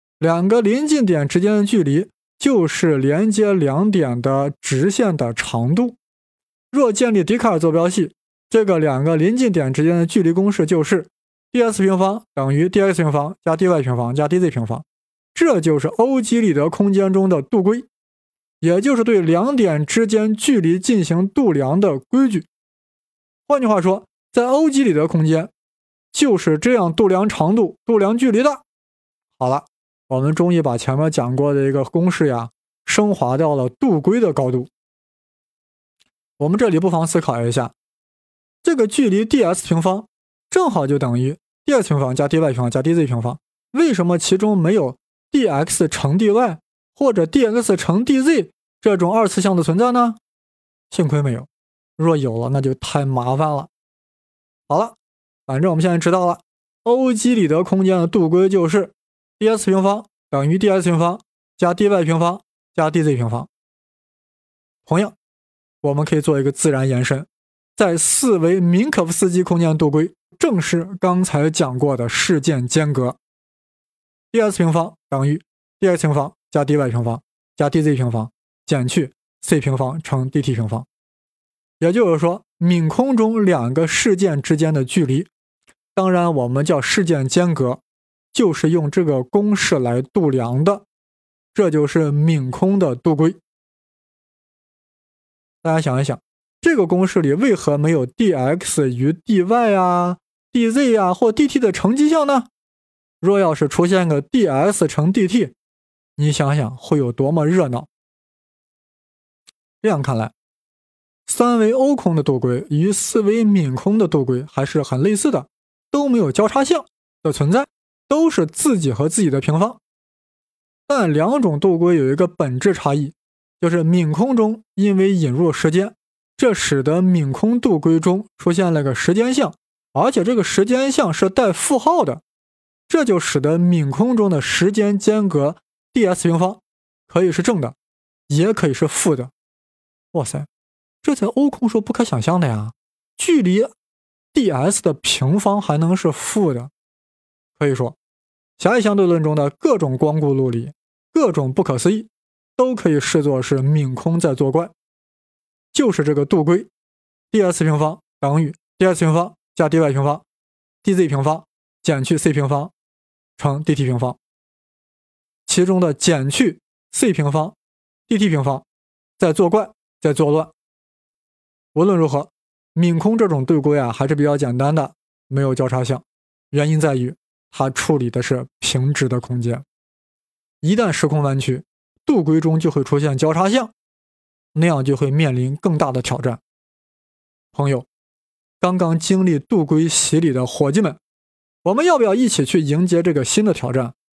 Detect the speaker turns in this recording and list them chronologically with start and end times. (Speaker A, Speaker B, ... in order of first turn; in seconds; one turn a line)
Speaker A: 0.2-6.0
Speaker A: 6.7-17.9
Speaker A: 18.6-22.5
Speaker A: 23.5-25.5
Speaker A: 26.1-28.6
Speaker A: 29.4-34.7
Speaker A: 36.4-37.7
Speaker A: 38.6-50.2
Speaker A: 50.9-53.7
Speaker A: 54.7-63.5
Speaker A: 64.9-65.1
Speaker A: 65.8-73.2
Speaker A: 74.3-80.9
Speaker A: 81.8-85.3
Speaker A: 86.0-87.8
Speaker A: 88.3-90.8
Speaker A: 91.5-93.4
Speaker A: 95.6-102.5
Speaker A: 103.2-105.5
Speaker A: 106.2-107.9
Speaker A: 109.8-110.3
Speaker A: 111.3-119.8
Speaker A: 120.9-132.2
Speaker A: 132.9-137.8
Speaker A: 138.3-139.3
Speaker A: 140.1-140.5
Speaker A: 141.0-143.7
Speaker A: 144.3-146.7
Speaker A: 147.6-147.9
Speaker A: 148.6-154.7
Speaker A: 155.7-156.7
Speaker A: 157.3-160.2
Speaker A: 160.8-162.7
Speaker A: 163.4-164.2
Speaker A: 165.5-167.6
Speaker A: 168.1-168.6
Speaker A: 169.2-170.5
Speaker A: 171.7-179.6
Speaker A: 180.6-183.7
Speaker A: 184.6-186.4
Speaker A: 187.5-187.9
Speaker A: 188.6-191.0
Speaker A: 191.6-193.9